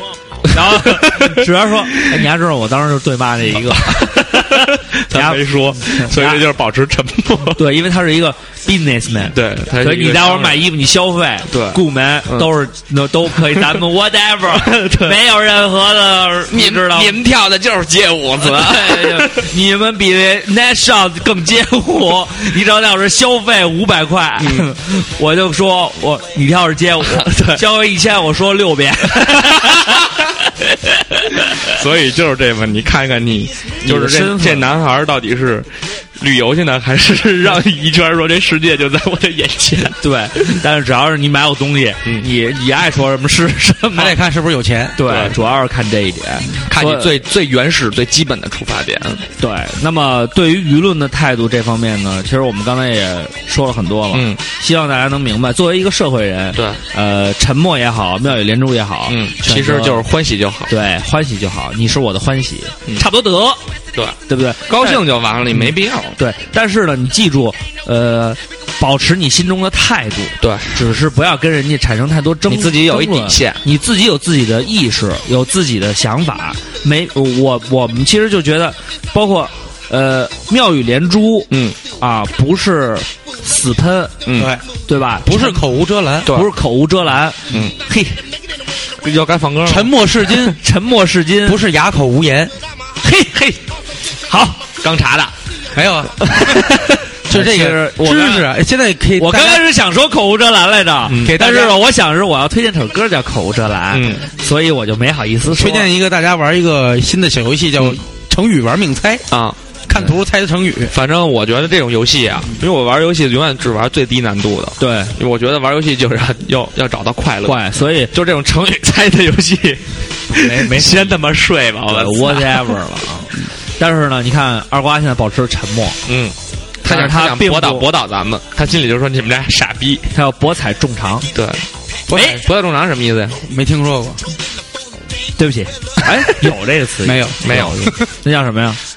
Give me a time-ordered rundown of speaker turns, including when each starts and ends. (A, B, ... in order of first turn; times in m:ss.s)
0:00.5-0:06.4 A
0:00.5-0:02.2 B
0:03.9-0:07.6 B
0:07.6-0:17.2 A
0:09.3-0:10.6 B
0:11.5-0:12.5 B
0:13.3-0:13.9 B
0:14.5-0:15.2 B
0:16.5-0:19.5 B
0:18.4-0:31.7 A
0:24.4-0:24.7 B
0:27.0-0:27.6 B
0:31.6-0:40.0 B
0:33.8-0:34.7 A
0:40.0-0:44.2 A
0:43.9-0:45.0 C
0:45.0-0:47.2 A
0:45.0-0:45.4 B
0:46.7-0:49.2 B
0:49.4-1:00.0 A
0:54.1-0:54.4 B
0:56.6-0:56.8 B
0:59.1-1:00.7 B
1:00.7-1:03.6 A
1:04.0-1:06.2 B
1:04.3-1:24.2 A
1:10.4-1:10.8 B
1:12.5-1:13.6 B
1:21.5-1:21.8 B
1:24.2-1:24.6 B
1:24.4-1:24.6 C
1:24.9-1:25.7 A
1:25.2-1:26.3 C
1:26.2-1:26.5 B
1:26.3-1:28.2 A
1:29.0-1:30.3 B
1:29.6-1:30.6 C
1:30.6-1:31.6 A
1:31.4-1:32.5 C
1:33.0-1:33.6 A
1:34.3-1:34.6 A
1:34.8-1:35.3 B
1:35.7-1:36.2 C
1:36.3-1:38.5 A
1:37.3-1:39.7 C
1:39.2-1:45.9 A
1:41.1-1:41.6 B
1:41.3-1:41.8 C
1:43.9-1:44.2 B
1:45.5-1:49.2 C
1:49.3-1:49.6 B
1:49.9-1:50.9 C
1:50.9-2:02.8 B
1:54.8-1:55.1 A
1:57.5-1:58.1 A
2:00.3-2:01.2 A
2:01.9-2:06.0 A
2:06.1-2:10.1 B
2:06.8-2:07.9 A
2:10.1-2:11.3 A
2:11.3-2:13.4 B
2:12.1-2:12.4 C
2:13.5-2:14.2 C
2:15.4-2:18.8 A
2:17.0-2:17.9 C
2:17.4-2:17.9 B